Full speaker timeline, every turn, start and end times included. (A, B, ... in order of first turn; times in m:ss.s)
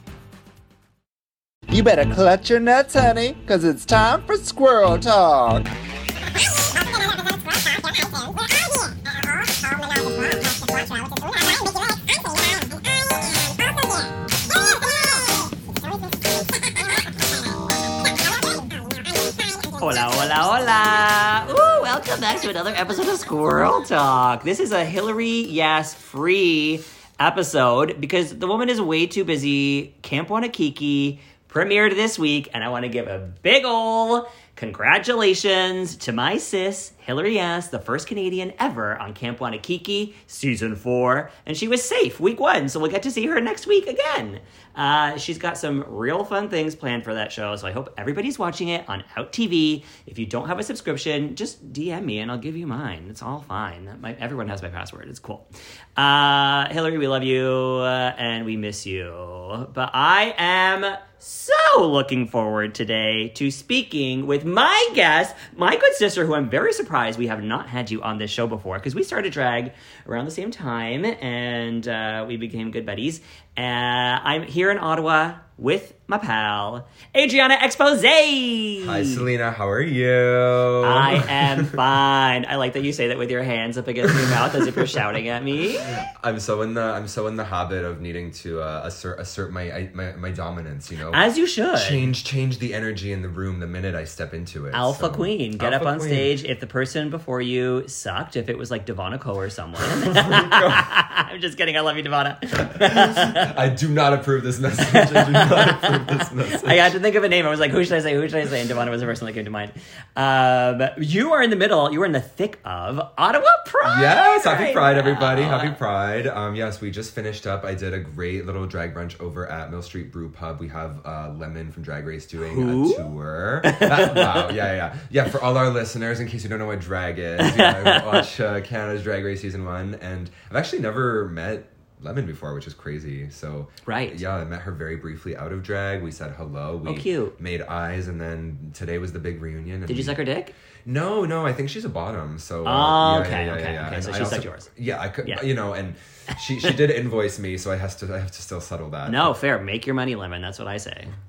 0:01.7-0:05.7 A
0:19.8-1:19.2 B
1:18.8-1:21.8 C
1:20.8-1:26.0 B
1:24.0-1:24.9 C
1:25.8-1:36.4 C
1:31.1-1:32.1 B
1:34.7-1:43.5 B
1:39.8-1:40.9 C
1:42.7-1:46.9 C
1:44.8-1:55.8 B
1:53.8-2:20.2 C
2:02.4-2:03.1 B
2:03.6-2:04.6 B
2:07.4-2:08.2 B
2:13.9-2:14.2 B
2:16.8-2:17.4 B
2:19.9-2:20.6 B
2:20.8-2:29.4 C
2:22.6-2:24.7 B
2:29.0-2:31.1 B